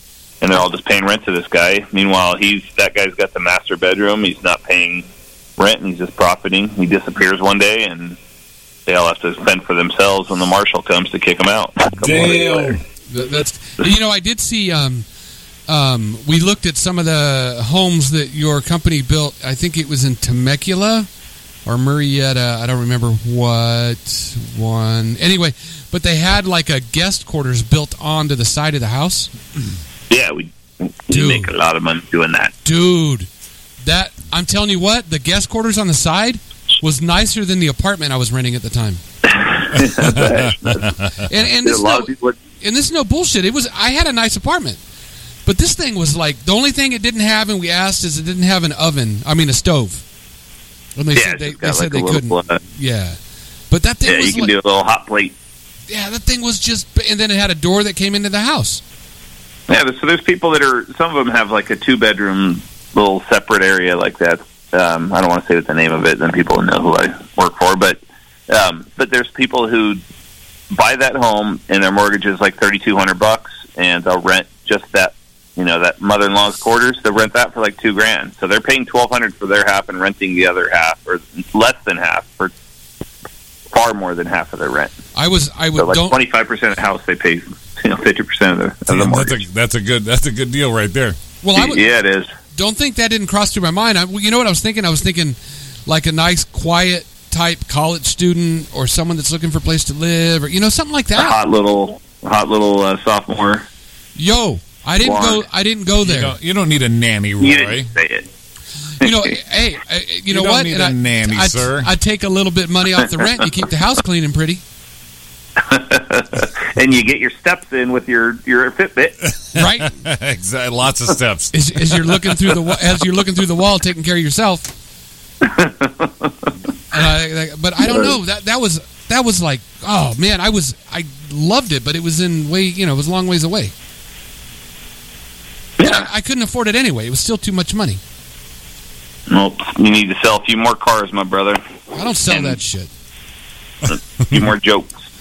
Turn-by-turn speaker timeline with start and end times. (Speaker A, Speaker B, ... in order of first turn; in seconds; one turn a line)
Speaker A: 0.4-5.1
Speaker A: 5.6-8.2
Speaker A: 8.9-12.8
Speaker B: 11.9-12.8
Speaker C: 13.1-15.1
Speaker C: 15.7-21.1
Speaker C: 21.7-29.3
Speaker A: 30.1-32.5
Speaker C: 31.1-31.5
Speaker C: 32.6-33.3
Speaker C: 33.8-39.0
Speaker A: 39.3-40.9
Speaker B: 39.7-41.1
Speaker C: 41.3-44.8
Speaker A: 41.5-42.4
Speaker C: 45.5-50.0
Speaker C: 51.0-53.2
Speaker A: 51.1-52.6
Speaker C: 53.7-54.5
Speaker A: 54.0-55.3
Speaker C: 55.9-58.8
Speaker A: 59.7-70.0
Speaker A: 70.7-82.5
Speaker A: 83.7-84.9
Speaker C: 85.2-86.2
Speaker A: 85.8-89.4
Speaker B: 88.9-91.2
Speaker C: 91.4-91.9
Speaker A: 91.5-92.3
Speaker C: 92.5-101.4
Speaker A: 101.2-103.7
Speaker C: 104.2-106.3
Speaker A: 105.0-105.4
Speaker B: 106.0-107.9
Speaker A: 107.4-108.3
Speaker C: 109.0-114.6
Speaker B: 110.3-111.9
Speaker A: 115.6-119.2
Speaker C: 119.5-119.9
Speaker B: 119.6-122.0
Speaker C: 121.5-124.7
Speaker A: 125.4-126.3
Speaker C: 126.9-133.7
Speaker A: 135.8-136.1
Speaker C: 135.8-138.0
Speaker A: 139.3-141.6
Speaker C: 141.9-142.9
Speaker A: 142.3-142.6
Speaker A: 144.2-144.9